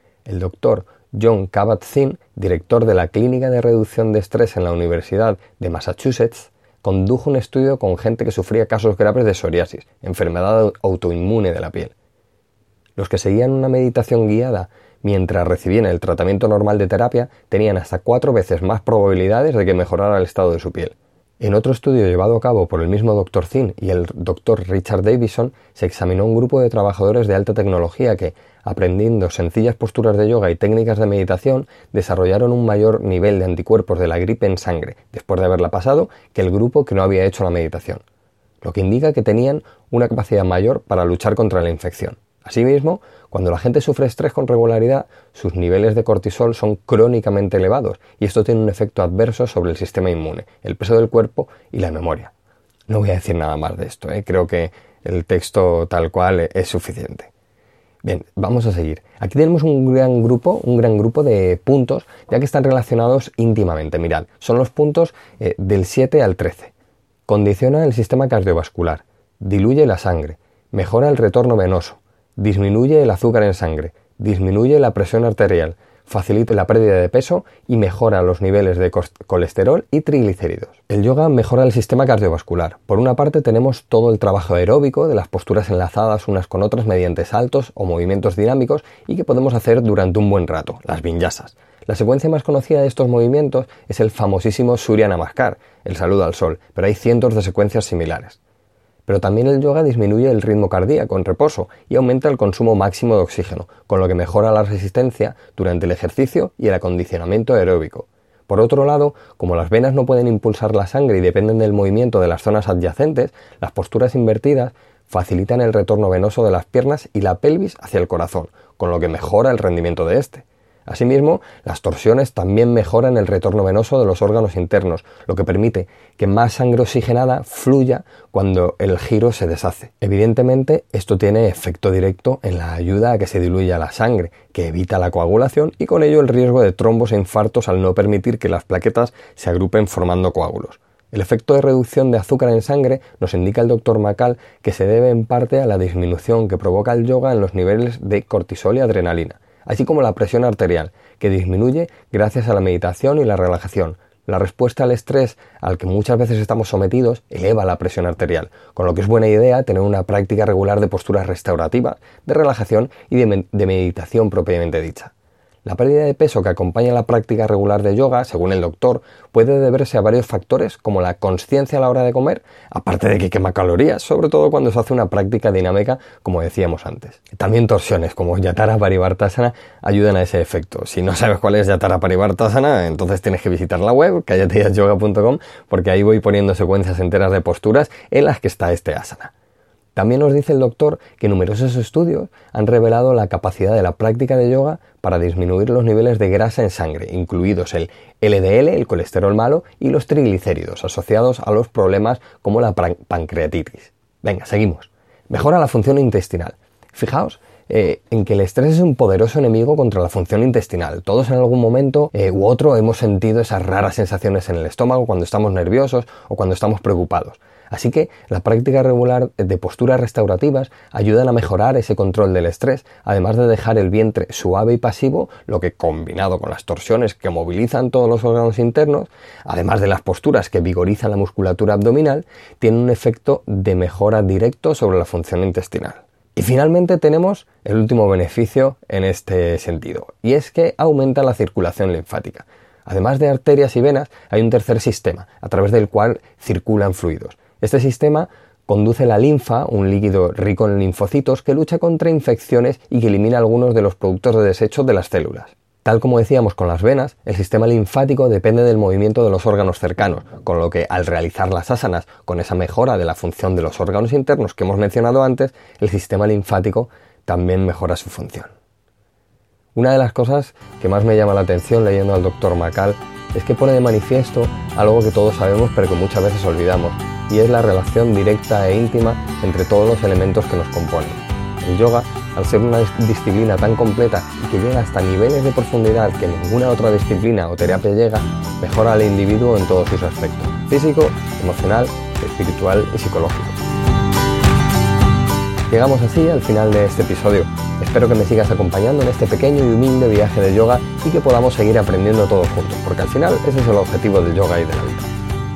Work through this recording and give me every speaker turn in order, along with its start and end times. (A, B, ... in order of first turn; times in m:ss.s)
0:00.2-0:11.9 A
0:13.0-0:38.0 A
0:38.6-0:52.3 A
0:52.9-0:57.3 A
0:58.0-1:06.7 A
1:07.3-1:38.4 A
1:39.0-2:45.1 A
2:45.6-3:09.3 A
3:10.0-4:28.5 A
4:29.7-4:53.6 A
4:55.7-5:05.1 A